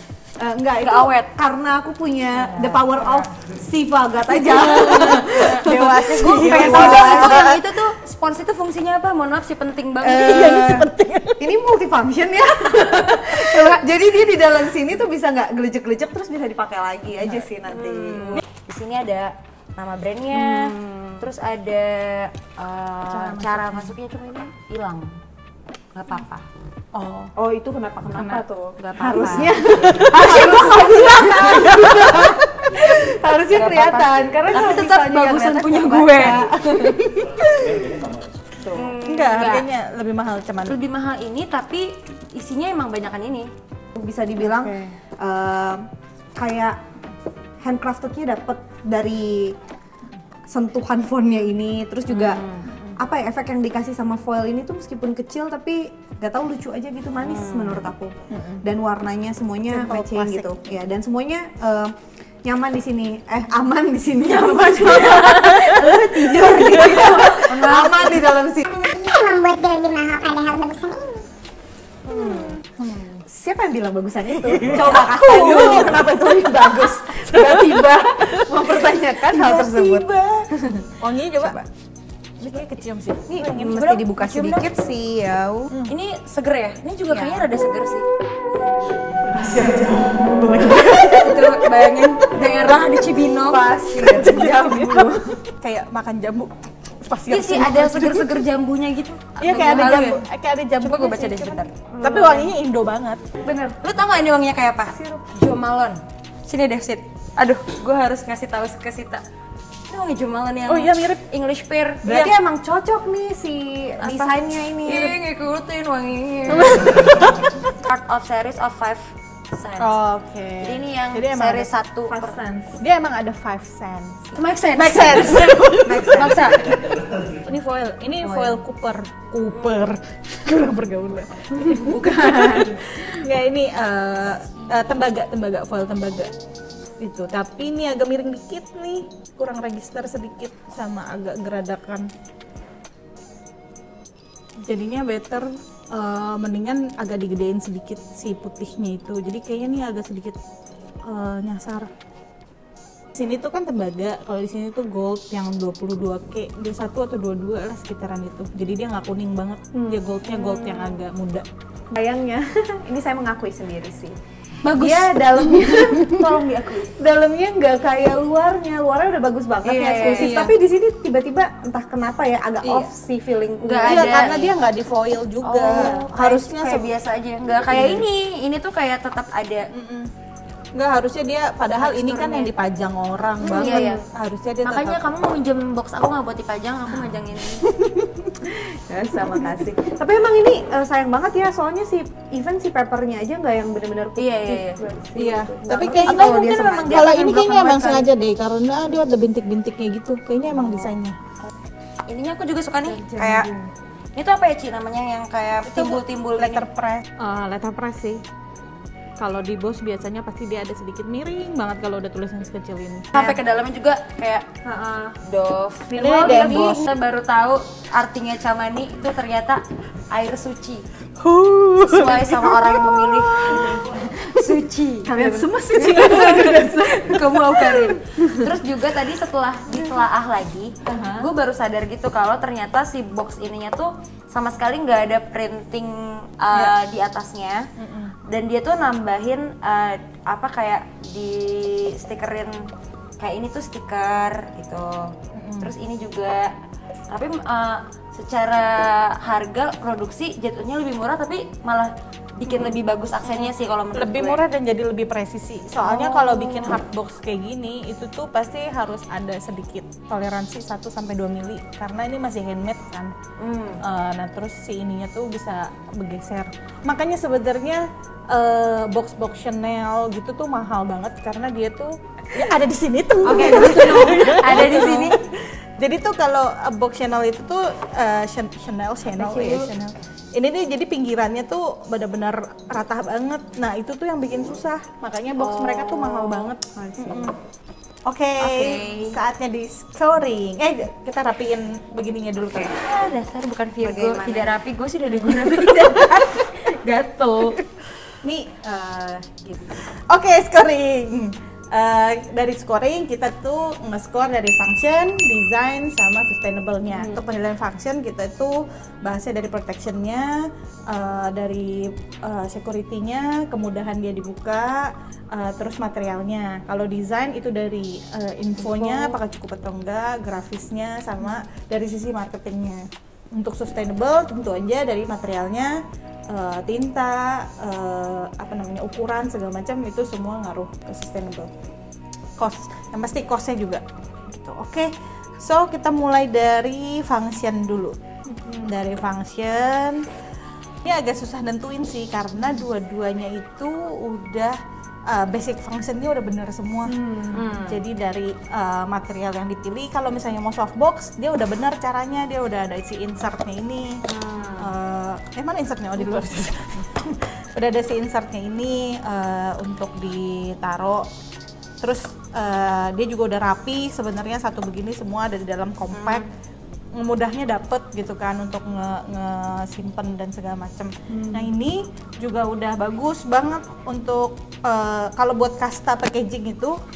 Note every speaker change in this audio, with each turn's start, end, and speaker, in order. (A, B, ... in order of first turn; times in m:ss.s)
0:00.4-0:07.6 A
0:00.8-0:01.3 B
0:02.4-0:03.2 C
0:04.5-0:07.6 C
0:04.7-0:10.8 B
0:10.0-0:18.4 A
0:10.3-0:11.5 C
0:12.6-0:13.8 B
0:17.6-0:25.2 B
0:20.3-0:21.3 A
0:23.1-0:23.9 C
0:25.9-0:26.4 B
0:26.9-0:27.3 C
0:27.4-0:37.3 A
0:28.2-0:28.4 C
0:28.8-0:32.2 B
0:33.5-0:37.0 B
0:37.7-0:38.0 C
0:38.5-0:38.9 A
0:38.7-0:39.7 B
0:39.0-0:40.8 C
0:40.7-0:43.5 B
0:44.0-0:45.8 A
0:44.4-0:44.8 C
0:46.4-0:46.8 A
0:47.6-0:49.6 A
0:50.5-0:52.4 A
0:52.1-0:52.8 B
0:52.7-0:53.0 C
0:53.0-1:08.9 A
0:57.2-0:57.9 B
0:58.3-0:58.6 C
0:59.7-1:00.5 C
1:04.2-1:08.3 B
1:08.8-1:11.1 D
1:12.1-1:12.6 A
1:12.2-1:13.2 C
1:13.2-1:20.8 A
1:14.6-1:17.0 C
1:15.4-1:15.9 B
1:17.5-1:17.8 C
1:18.8-1:21.6 C
1:21.4-1:21.7 A
1:22.4-1:23.8 C
1:23.3-1:25.7 A
1:23.6-1:24.7 B
1:25.9-1:28.1 B
1:27.1-1:27.5 A
1:29.2-1:32.8 C
1:31.0-1:34.8 B
1:33.4-1:35.4 A
1:34.2-1:38.3 C
1:37.3-1:40.2 B
1:39.4-1:43.2 C
1:40.8-1:41.8 B
1:41.9-1:42.5 A
1:43.4-1:43.8 A
1:43.8-1:49.2 B
1:44.9-1:45.3 A
1:49.9-1:52.0 B
1:50.7-1:51.2 C
1:52.0-1:52.4 C
1:52.1-1:55.2 A
1:54.0-1:57.3 B
1:56.5-1:57.6 C
1:57.8-2:00.0 B
1:59.8-2:01.7 C
2:00.6-2:02.4 B
2:02.1-2:02.8 A
2:02.8-2:16.3 C
2:04.3-2:06.8 B
2:05.8-2:06.4 A
2:09.5-2:09.8 B
2:11.6-2:13.2 B
2:17.0-2:22.1 C
2:24.7-2:30.4 C
2:31.1-2:31.9 C
2:33.2-2:41.4 C
2:39.8-2:41.0 A
2:41.9-2:44.2 A
2:44.6-2:46.9 B
2:44.7-2:54.4 A
2:49.6-2:50.5 B
2:50.0-2:50.5 C
2:52.6-2:52.9 C
2:53.6-2:54.6 B
2:53.8-2:56.9 C
2:55.4-2:59.6 B
2:55.7-2:56.8 A
2:57.7-2:58.0 C
2:59.7-3:00.1 C
3:00.8-3:05.0 C
3:01.6-3:02.5 B
3:03.4-3:04.0 B
3:03.4-3:03.9 A
3:04.6-3:07.7 B
3:07.6-3:08.4 C
3:08.4-3:17.2 A
3:14.2-3:14.8 B
3:15.2-3:21.2 C
3:15.7-3:18.1 B
3:20.5-3:21.0 B
3:22.1-3:23.5 B
3:22.8-3:23.7 A
3:24.2-3:26.6 B
3:25.7-3:28.2 C
3:29.2-3:33.1 C
3:33.2-3:34.5 B
3:34.6-3:35.2 A
3:35.2-3:40.8 B
3:36.0-3:36.8 C
3:36.0-3:36.8 A
3:41.2-3:44.1 C
3:41.8-3:57.6 B
3:45.1-3:48.5 A
3:50.9-3:51.3 A
3:57.8-3:58.2 C
3:58.3-4:02.6 B
4:03.2-4:06.5 B
4:05.3-4:05.7 C
4:07.1-4:14.4 B
4:13.3-4:23.1 C
4:15.8-4:16.8 B
4:23.4-4:23.8 B
4:23.8-4:47.3 C
4:33.2-4:35.2 B
4:33.3-4:34.7 A
4:39.2-4:39.7 B
4:45.4-4:46.5 B
4:46.8-4:47.3 A
4:48.1-4:52.8 C
4:48.4-4:49.2 B
4:52.6-4:57.6 B
4:53.8-4:54.6 A
4:55.3-4:56.1 C
4:58.2-5:25.8 C
5:06.9-5:07.2 B
5:18.8-5:19.1 B
5:26.3-5:31.5 C
5:32.4-5:38.0 C
5:38.4-5:38.7 A
5:38.6-5:40.1 C
5:40.8-5:44.6 C
5:45.1-5:54.0 C
5:46.9-5:47.6 A
5:47.3-5:47.8 B
5:54.2-5:54.7 B
5:54.6-6:01.1 C
6:01.8-6:06.3 C
6:05.9-6:06.3 B
6:07.0-6:16.8 C
6:11.1-6:11.5 A